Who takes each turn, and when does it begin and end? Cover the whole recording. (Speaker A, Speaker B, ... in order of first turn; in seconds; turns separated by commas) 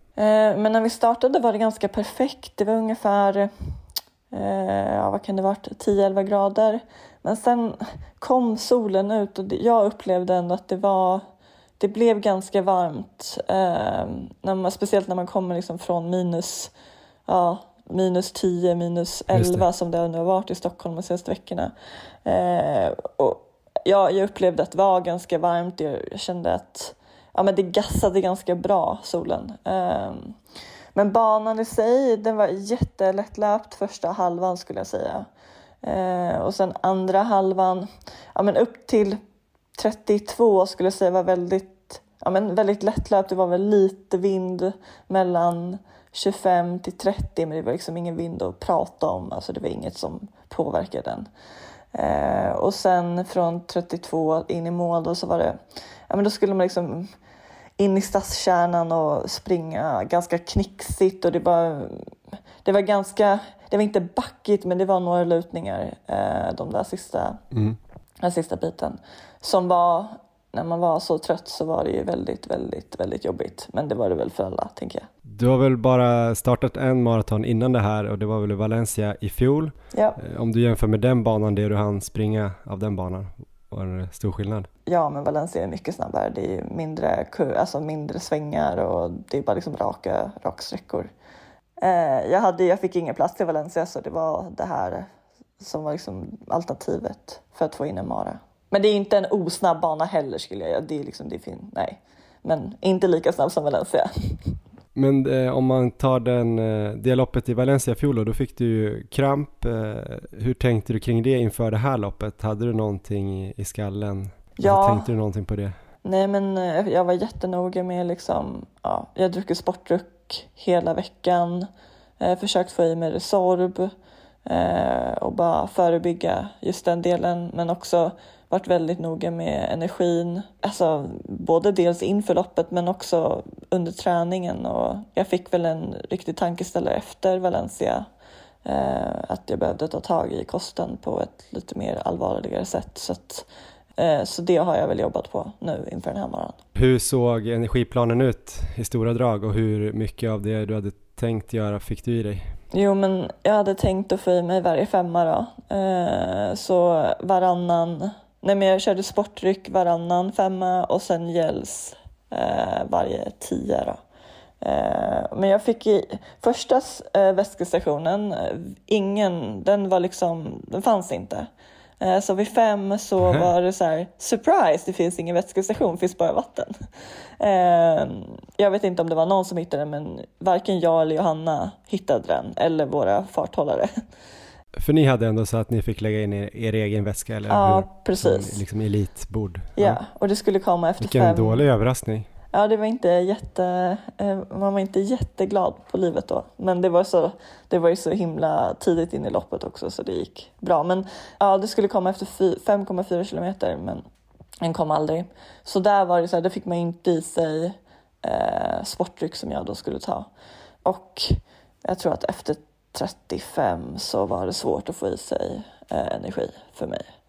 Speaker A: 0.2-3.5, Speaker A: 4.3-11.2, Speaker A: 11.8-16.7, Speaker A: 17.3-21.7, Speaker B: 19.3-19.7, Speaker A: 22.2-30.4, Speaker A: 30.9-35.3, Speaker A: 35.8-39.2, Speaker A: 39.8-51.3, Speaker A: 51.9-55.6, Speaker A: 56.1-57.1, Speaker A: 57.8-62.1, Speaker A: 62.6-67.4, Speaker B: 67.5-67.8, Speaker A: 68.2-75.1, Speaker B: 75.3-84.7, Speaker A: 84.9-91.1, Speaker A: 91.8-95.1, Speaker A: 95.6-104.6, Speaker B: 105.0-115.8, Speaker A: 114.6-115.1, Speaker A: 116.0-121.7, Speaker A: 122.2-123.9, Speaker A: 124.5-138.1, Speaker A: 138.7-143.5, Speaker A: 144.0-146.6, Speaker B: 146.8-152.5, Speaker A: 152.7-164.0, Speaker A: 164.6-171.5, Speaker A: 172.0-176.8, Speaker B: 173.2-173.5, Speaker A: 177.4-184.0, Speaker B: 184.8-190.0, Speaker A: 187.5-188.6, Speaker A: 189.8-191.7, Speaker B: 191.0-192.3, Speaker A: 192.5-204.0, Speaker A: 204.6-210.3, Speaker A: 210.8-217.1